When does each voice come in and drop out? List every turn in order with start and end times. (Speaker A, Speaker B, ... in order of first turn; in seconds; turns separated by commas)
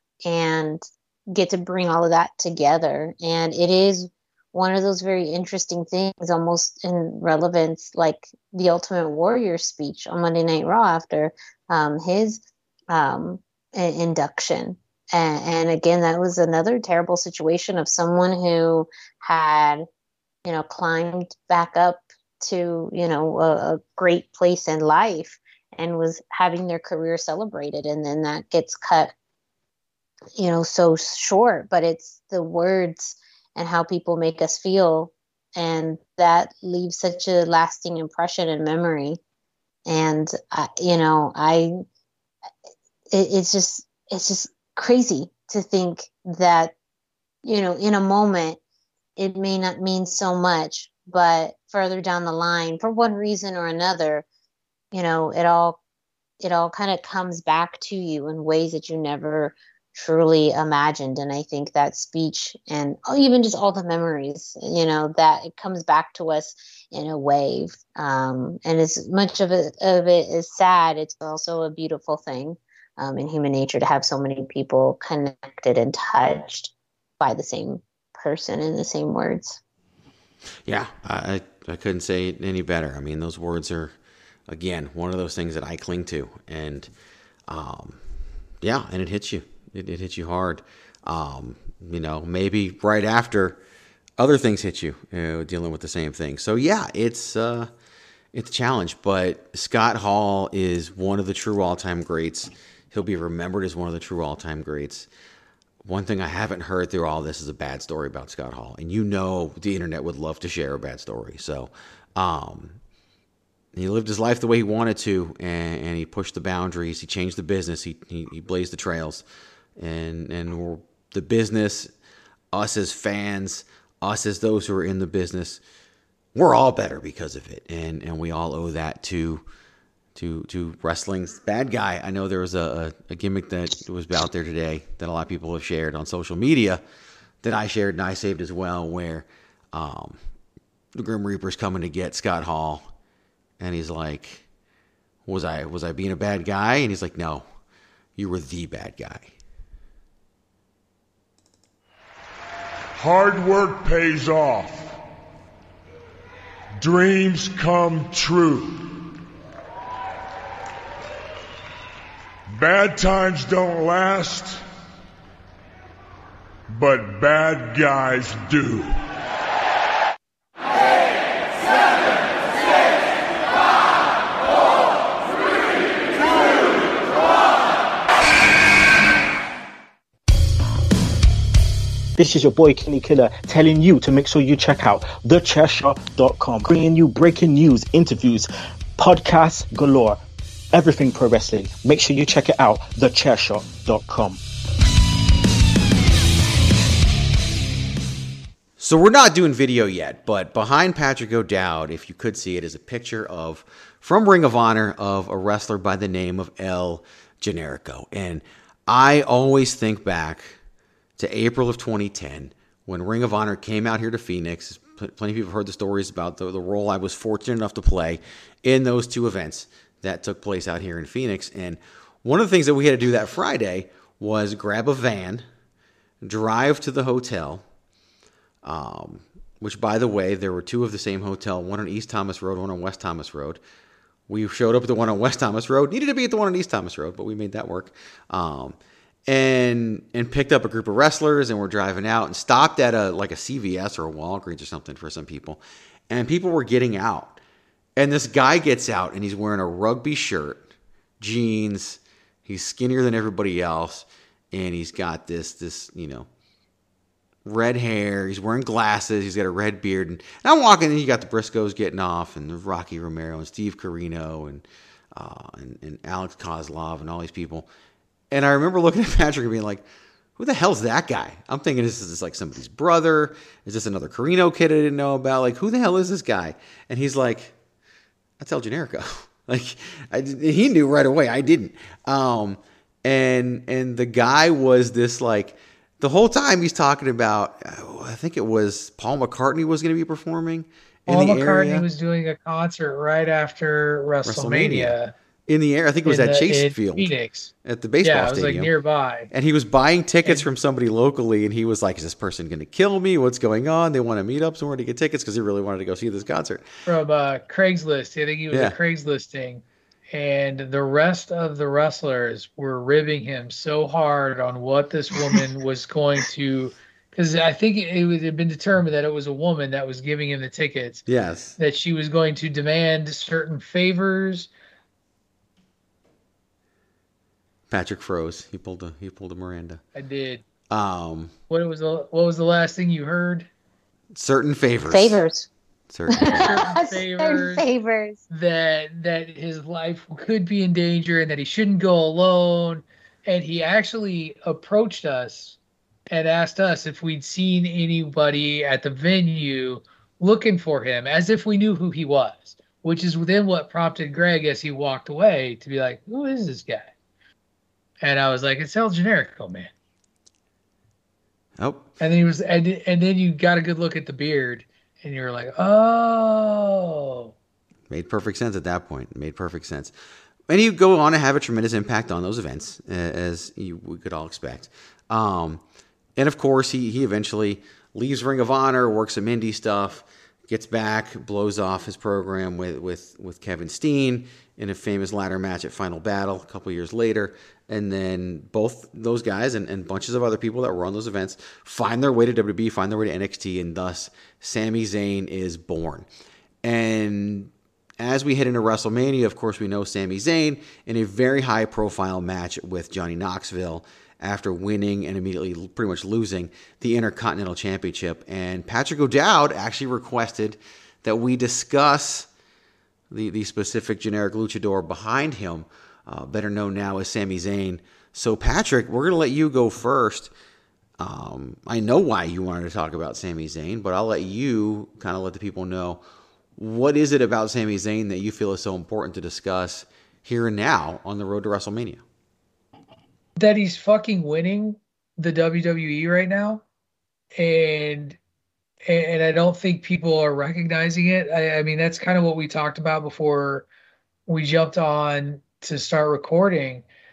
Speaker A: 0.2-19.9, Speaker A: 20.4-29.1, Speaker A: 30.4-39.2, Speaker A: 39.9-41.8, Speaker A: 43.1-46.7, Speaker A: 47.4-48.6, Speaker A: 49.2-54.2, Speaker A: 54.9-55.8, Speaker A: 56.4-79.6, Speaker B: 80.7-84.0, Speaker B: 84.5-86.9, Speaker B: 87.5-88.0, Speaker B: 88.6-93.6, Speaker B: 94.2-97.7, Speaker B: 98.3-105.1, Speaker B: 105.8-112.8, Speaker B: 113.7-119.2, Speaker B: 119.8-121.9, Speaker B: 122.5-125.6, Speaker B: 126.3-129.4, Speaker B: 130.2-136.8, Speaker B: 137.4-140.2, Speaker B: 140.9-142.9, Speaker B: 143.6-144.5, Speaker B: 145.3-147.5, Speaker B: 148.2-149.3, Speaker C: 152.9-155.0, Speaker C: 156.8-159.0, Speaker C: 162.5-164.6, Speaker C: 166.7-169.0, Speaker D: 182.2-190.2, Speaker D: 190.7-194.4, Speaker B: 198.8-210.6, Speaker B: 211.2-225.4, Speaker B: 226.2-227.6, Speaker B: 228.6-233.6, Speaker B: 234.3-247.4, Speaker B: 248.0-250.7, Speaker B: 251.2-256.3, Speaker B: 257.4-267.7, Speaker B: 268.3-269.9, Speaker B: 270.4-277.6, Speaker B: 278.4-291.9, Speaker E: 291.1-295.1, Speaker B: 294.2-294.9, Speaker B: 295.5-297.1, Speaker E: 296.1-297.5, Speaker B: 297.6-298.7, Speaker E: 298.0-299.3, Speaker B: 299.3-306.6, Speaker E: 306.9-321.0, Speaker B: 308.5-308.8, Speaker B: 321.1-321.6, Speaker E: 321.6-324.5, Speaker B: 327.7-329.8, Speaker E: 330.0-330.4, Speaker B: 330.7-331.3, Speaker E: 331.5-333.5, Speaker B: 334.1-335.2, Speaker A: 334.9-335.5, Speaker B: 335.9-336.6, Speaker A: 336.1-338.2, Speaker E: 336.3-337.6, Speaker E: 338.3-345.6, Speaker E: 346.1-356.9, Speaker E: 358.0-359.7, Speaker B: 361.6-361.9, Speaker E: 362.0-367.3, Speaker B: 367.9-369.9, Speaker B: 370.5-375.6, Speaker B: 376.2-396.1, Speaker B: 396.6-412.3, Speaker B: 413.1-420.3, Speaker B: 421.0-426.0, Speaker B: 426.6-432.0, Speaker E: 433.4-436.6, Speaker E: 437.4-438.2, Speaker E: 438.9-443.7, Speaker E: 444.3-446.9